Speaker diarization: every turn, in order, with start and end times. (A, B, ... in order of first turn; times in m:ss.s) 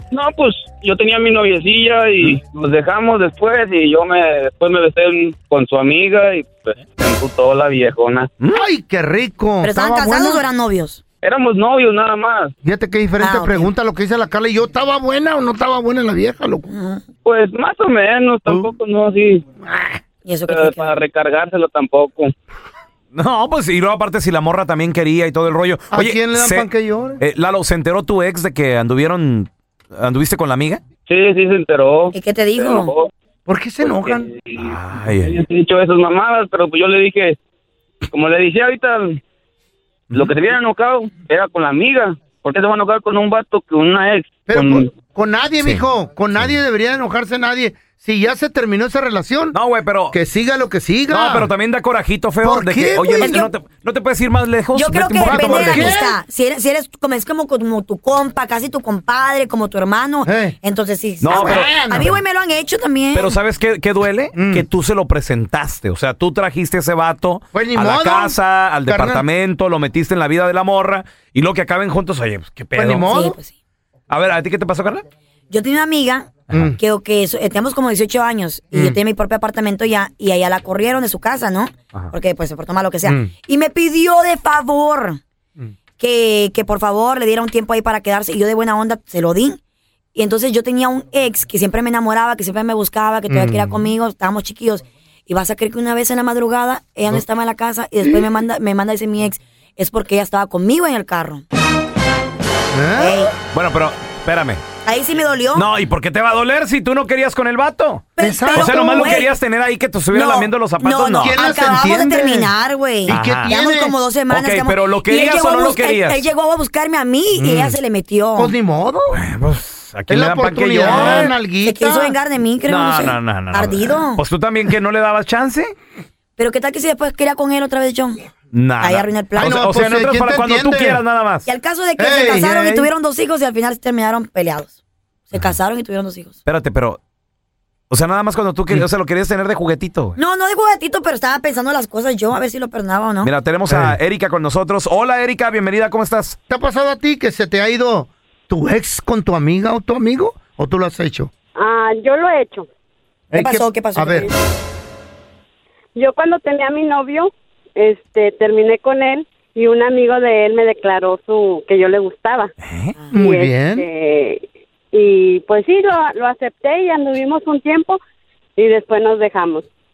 0:00.1-0:08.3 A
0:08.5-0:10.4 B
0:09.6-0:11.0 C
0:11.2-0:12.5 A
0:12.6-0:16.7 B
0:13.2-0:13.7 C
0:16.7-0:17.0 C
0:17.2-0:19.4 A
0:18.4-0:18.7 B
0:19.6-0:20.0 B
0:20.2-0:21.0 C
0:20.5-0:22.3 A
0:23.1-0:30.8 D
0:25.9-0:27.2 B
0:31.1-0:33.1 A
0:32.1-0:32.9 C
0:33.4-0:34.3 B
0:33.8-0:37.4 A
0:34.6-0:35.4 D
0:38.1-0:39.2 A
0:40.1-0:44.9 A
0:44.5-0:49.6 B
0:49.5-0:50.2 D
0:50.1-0:51.5 B
0:51.1-0:56.0 D
0:52.4-0:53.5 B
0:53.2-0:53.5 C
0:54.7-1:03.4 C
0:55.2-0:56.2 B
1:00.2-1:00.6 B
1:01.2-1:01.7 D
1:01.3-1:02.2 B
1:03.1-1:13.1 D
1:04.3-1:04.7 B
1:07.5-1:09.3 B
1:12.7-1:13.4 B
1:13.1-1:13.5 C
1:14.1-1:15.0 D
1:15.5-1:25.2 C
1:16.5-1:16.8 B
1:23.0-1:23.3 B
1:26.0-1:29.6 C
1:30.1-1:41.4 C
1:33.3-1:33.8 B
1:38.0-1:38.3 B
1:42.7-1:43.3 B
1:43.0-1:43.3 C
1:43.5-1:44.6 D
1:44.8-1:45.7 C
1:45.5-1:51.4 D
1:48.2-1:49.3 C
1:48.2-1:49.2 B
1:50.1-1:58.5 C
1:51.2-1:52.5 B
1:53.1-1:53.5 D
1:53.1-1:53.9 B
1:54.3-1:56.3 D
1:57.3-1:57.8 B
1:58.3-1:59.2 B
1:59.1-2:01.3 D
2:00.1-2:02.2 B
2:00.8-2:04.2 C
2:02.6-2:05.7 D
2:06.4-2:08.2 C
2:08.5-2:11.5 D
2:08.8-2:09.5 C
2:09.4-2:11.0 B
2:11.4-2:14.8 C
2:12.0-2:12.9 B
2:15.3-2:16.4 C
2:16.4-2:17.0 D
2:17.9-2:20.2 D
2:20.2-2:23.3 C
2:23.2-2:26.4 D
2:23.7-2:24.0 B
2:26.5-2:31.3 B
2:31.6-2:32.7 E
2:33.3-2:34.3 B
2:33.3-2:34.3 C
2:35.9-2:42.5 E
2:43.1-2:43.9 B
2:43.1-2:48.0 E
2:48.6-2:49.6 E